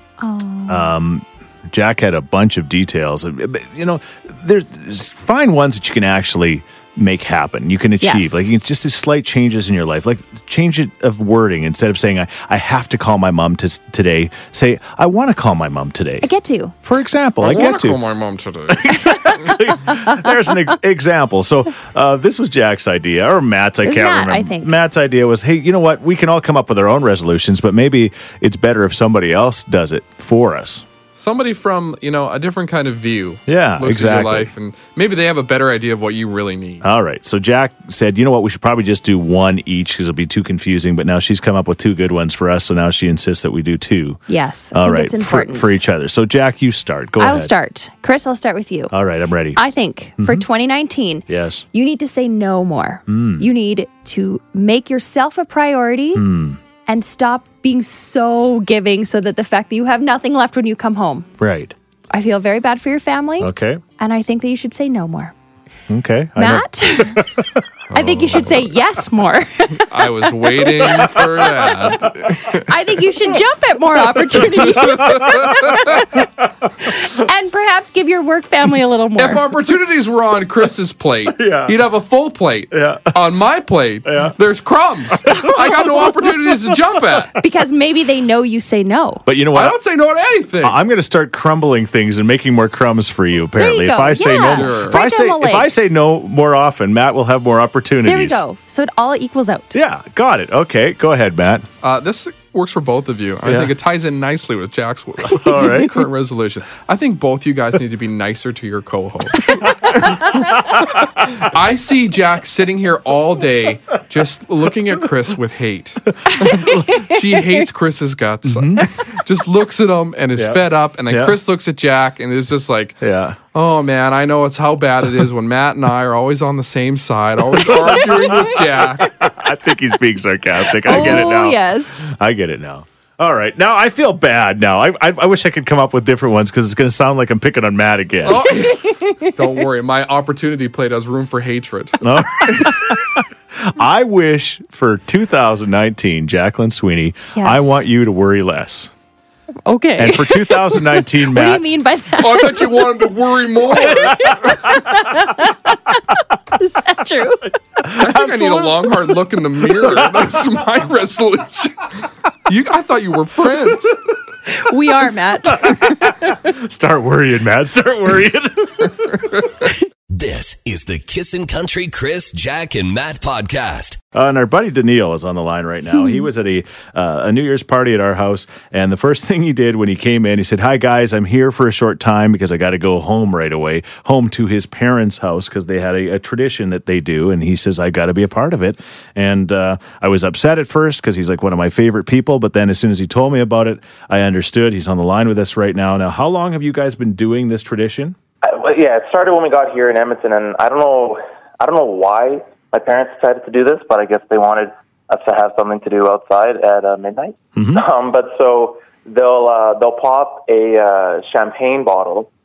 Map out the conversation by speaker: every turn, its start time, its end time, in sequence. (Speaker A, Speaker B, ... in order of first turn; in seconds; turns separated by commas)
Speaker A: 0.2-0.9, Speaker B: 0.7-16.3, Speaker A: 8.0-8.5, Speaker A: 16.2-16.7, Speaker B: 16.8-18.0, Speaker C: 17.4-19.6, Speaker B: 18.7-30.9, Speaker A: 23.8-24.8, Speaker C: 31.1-36.9, Speaker B: 33.5-34.5, Speaker B: 36.8-44.2, Speaker A: 44.3-45.8, Speaker B: 44.7-47.5, Speaker A: 47.2-48.9, Speaker B: 48.9-49.6, Speaker A: 49.6-56.3, Speaker B: 50.2-50.5, Speaker B: 51.3-51.6, Speaker B: 53.1-53.5, Speaker B: 56.1-56.6, Speaker A: 56.9-61.3, Speaker B: 61.4-61.7, Speaker A: 62.1-65.3, Speaker B: 63.4-63.8, Speaker B: 65.9-67.7, Speaker A: 66.4-67.2, Speaker C: 67.9-68.6, Speaker A: 67.9-69.9, Speaker C: 69.9-72.7, Speaker B: 70.8-72.4, Speaker A: 72.5-76.3, Speaker B: 74.3-75.6, Speaker C: 74.8-76.0, Speaker A: 76.8-79.4, Speaker C: 79.2-87.3, Speaker B: 81.3-81.8, Speaker B: 82.7-83.2, Speaker B: 84.0-84.3, Speaker B: 85.2-86.8, Speaker A: 87.4-89.2, Speaker B: 89.3-89.8, Speaker C: 89.5-90.8, Speaker B: 90.6-98.4, Speaker A: 93.6-95.7, Speaker C: 94.5-95.0, Speaker A: 98.0-99.8, Speaker B: 99.7-101.7, Speaker C: 101.8-110.5, Speaker B: 103.5-103.7, Speaker B: 105.3-106.1, Speaker B: 110.6-111.4, Speaker C: 111.2-123.0, Speaker B: 116.3-116.9, Speaker A: 116.4-116.8, Speaker B: 118.5-118.9, Speaker B: 120.4-121.4, Speaker B: 123.0-123.4, Speaker C: 123.5-129.2, Speaker B: 127.5-138.5, Speaker A: 130.8-132.1, Speaker C: 138.2-142.7, Speaker A: 138.9-139.3, Speaker B: 142.0-148.9, Speaker A: 147.3-147.8, Speaker A: 149.7-152.9, Speaker B: 150.0-151.6, Speaker C: 152.2-154.7, Speaker A: 153.8-157.5, Speaker B: 153.9-154.5, Speaker B: 157.8-160.4, Speaker C: 157.9-161.9, Speaker C: 162.5-164.0, Speaker A: 164.5-166.4, Speaker B: 165.5-169.2, Speaker D: 170.1-174.0, Speaker B: 174.1-198.2, Speaker E: 198.4-212.3, Speaker B: 207.6-207.8